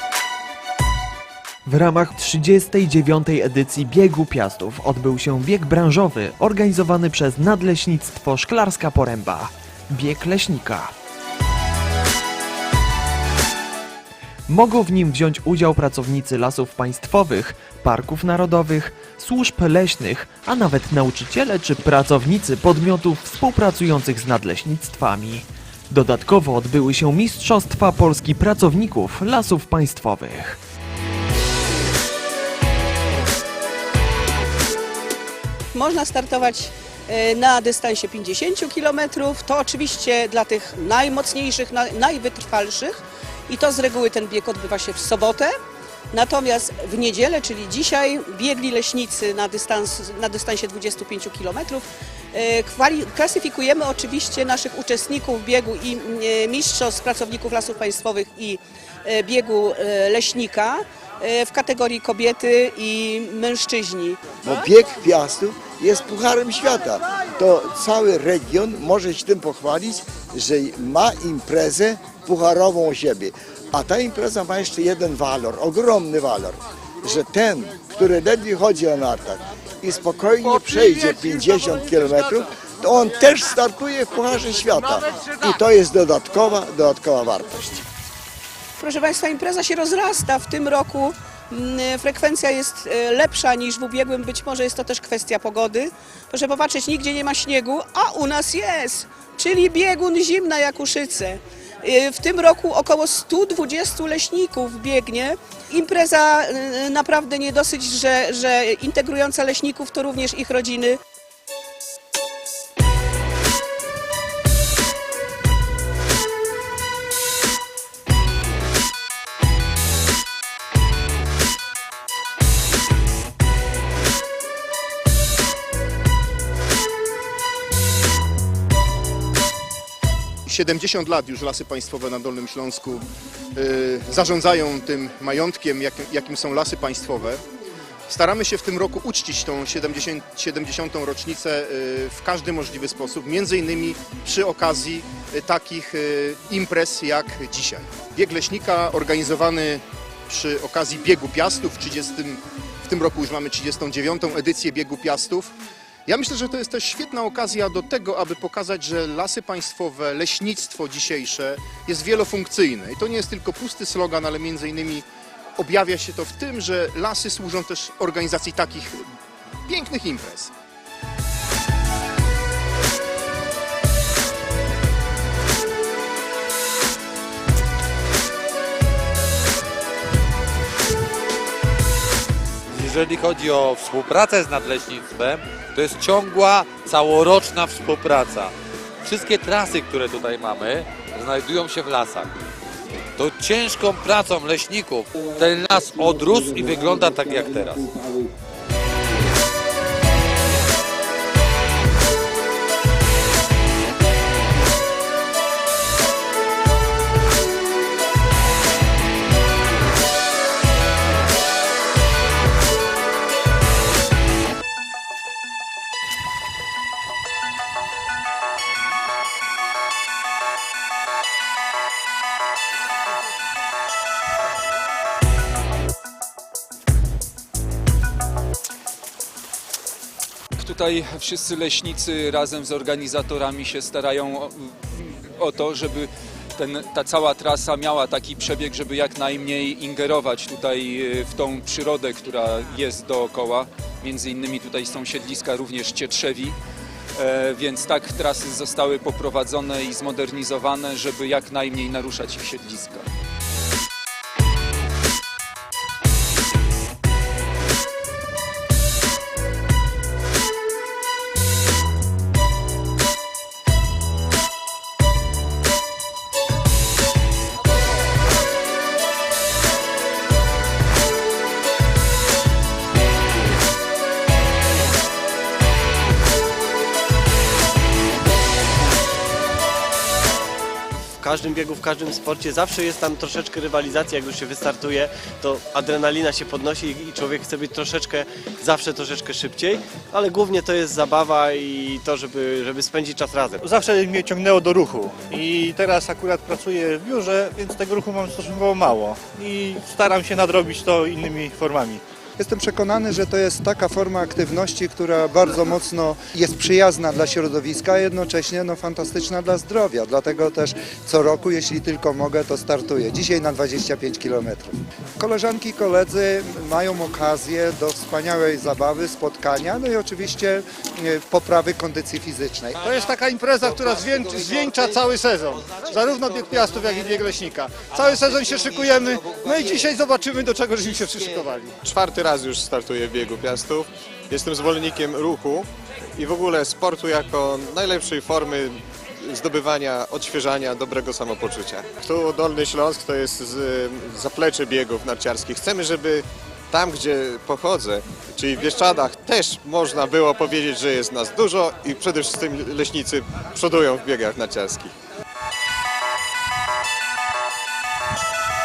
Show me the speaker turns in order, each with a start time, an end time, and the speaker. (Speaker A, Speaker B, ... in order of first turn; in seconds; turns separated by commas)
Speaker A: 1.6-10.9, Speaker A: 14.5-30.6, Speaker B: 35.8-40.9, Speaker C: 35.8-45.5, Speaker B: 41.6-42.0, Speaker C: 46.1-64.2, Speaker B: 49.2-49.6, Speaker B: 56.7-58.4, Speaker B: 59.1-60.7, Speaker B: 61.4-62.9, Speaker B: 63.6-64.1, Speaker D: 64.4-87.8, Speaker C: 88.8-111.0, Speaker B: 88.9-89.2, Speaker B: 92.3-92.7, Speaker B: 97.9-98.4, Speaker B: 107.6-107.9, Speaker B: 109.5-110.4, Speaker B: 130.4-137.4, Speaker B: 138.1-155.5, Speaker B: 156.1-165.0, Speaker B: 165.6-169.0, Speaker B: 169.7-170.5, Speaker E: 182.7-192.3, Speaker E: 193.2-197.9, Speaker F: 230.6-246.6, Speaker F: 247.2-253.1, Speaker G: 281.2-293.6, Speaker H: 293.6-302.0, Speaker I: 302.4-303.6, Speaker C: 302.4-314.5, Speaker I: 304.2-304.6, Speaker I: 305.3-308.7, Speaker I: 309.4-310.1, Speaker I: 310.9-322.8, Speaker C: 315.4-317.5, Speaker C: 318.0-318.5, Speaker C: 319.1-320.4, Speaker C: 321.5-321.9, Speaker H: 322.8-331.7, Speaker J: 331.8-338.7, Speaker J: 339.3-354.9